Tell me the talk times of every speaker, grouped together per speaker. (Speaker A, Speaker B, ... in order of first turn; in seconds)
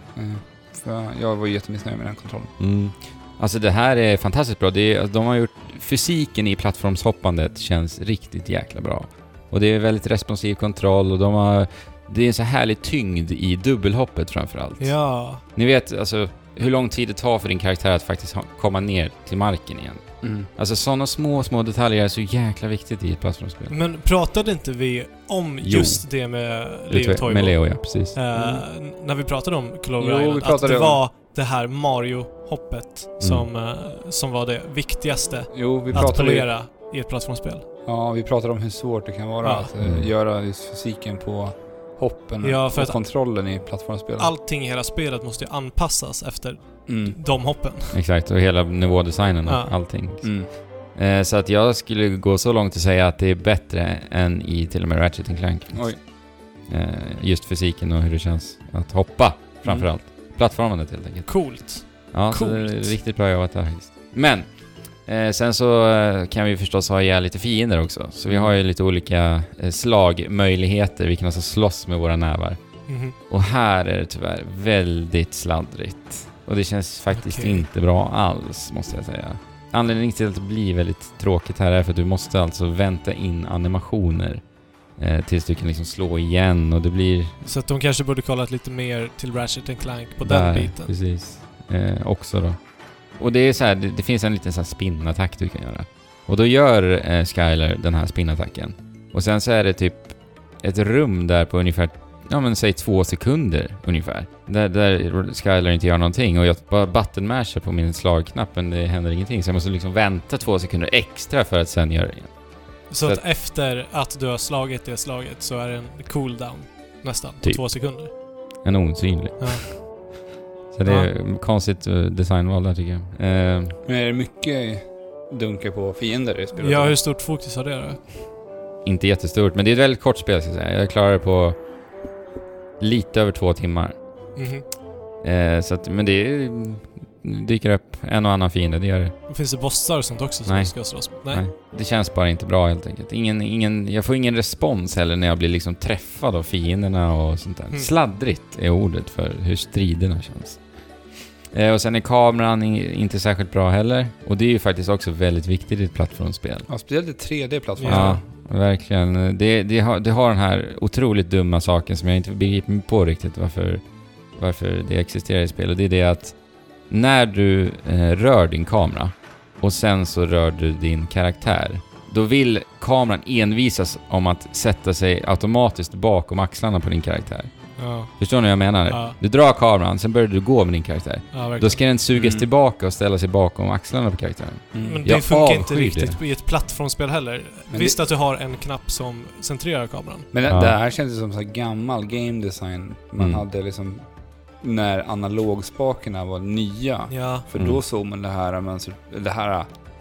Speaker A: 0.2-2.5, 20.2-20.5, 28.3-28.6, 30.0-31.0, 35.5-36.5, 37.9-44.3, 46.9-47.2, 50.2-50.5, 55.7-56.0, 68.3-68.5, 123.9-127.0, 156.7-158.2, 182.1-182.5, 184.7-185.1, 187.7-188.0, 190.3-194.0, 194.6-199.7
Speaker B: 2.6-15.0, 15.5-20.0, 20.6-23.7, 25.6-26.1, 26.9-28.2, 33.2-33.5, 39.8-40.1, 47.9-56.1, 56.7-64.5, 65.0-72.6, 73.3-84.4, 85.0-87.4, 90.2-92.6, 93.2-112.3, 117.4-117.8, 118.6-119.9, 120.7-123.8, 128.8-131.6, 132.8-134.0, 135.2-139.2, 140.5-150.7, 151.5-156.7, 157.9-163.8, 164.4-166.4, 166.9-186.2, 190.5-190.8, 193.2-193.4, 197.6-197.8
Speaker C: 14.8-15.4, 23.7-37.6, 39.4-39.7, 42.4-43.0, 44.2-48.0, 49.5-49.8, 61.3-63.0, 72.9-73.2, 77.1-77.7, 87.4-90.9, 112.9-118.1, 119.4-119.8, 120.8-121.1, 126.6-128.0, 134.4-134.7, 139.3-141.4, 157.8-158.2, 177.8-178.1, 178.9-179.2, 181.3-181.8, 184.8-190.3, 197.1-197.5